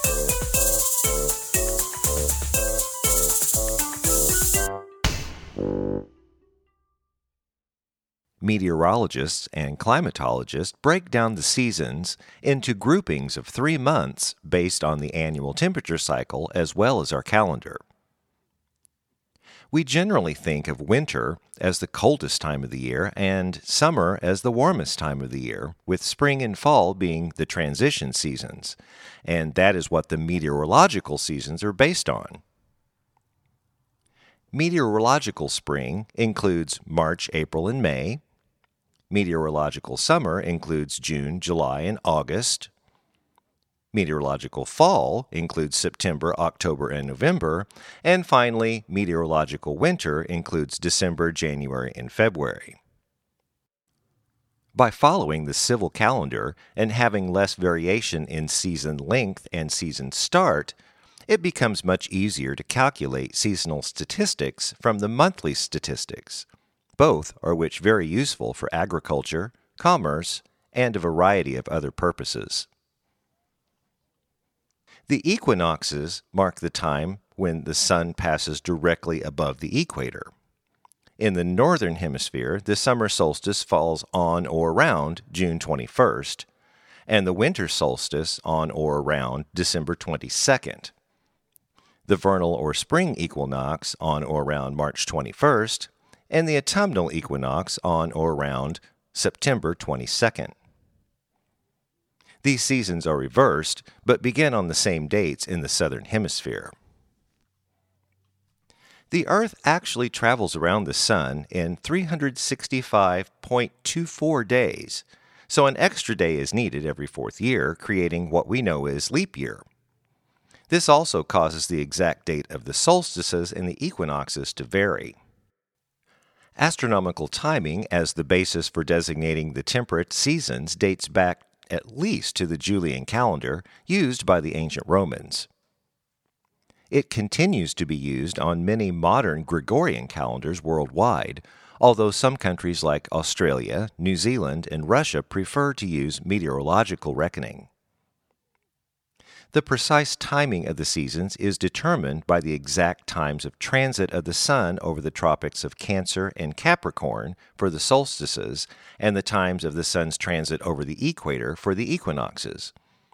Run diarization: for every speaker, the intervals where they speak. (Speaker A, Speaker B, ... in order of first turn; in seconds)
Speaker A: 8.4-17.8, 19.7-32.4, 34.5-38.2, 39.1-42.7, 43.9-52.8, 54.7-60.7, 61.3-66.5, 67.0-72.7, 75.1-80.3, 81.2-86.5, 87.1-90.9, 92.1-100.5, 102.4-106.7, 109.1-119.6, 120.7-125.2, 126.6-135.5, 136.9-147.7, 149.5-162.7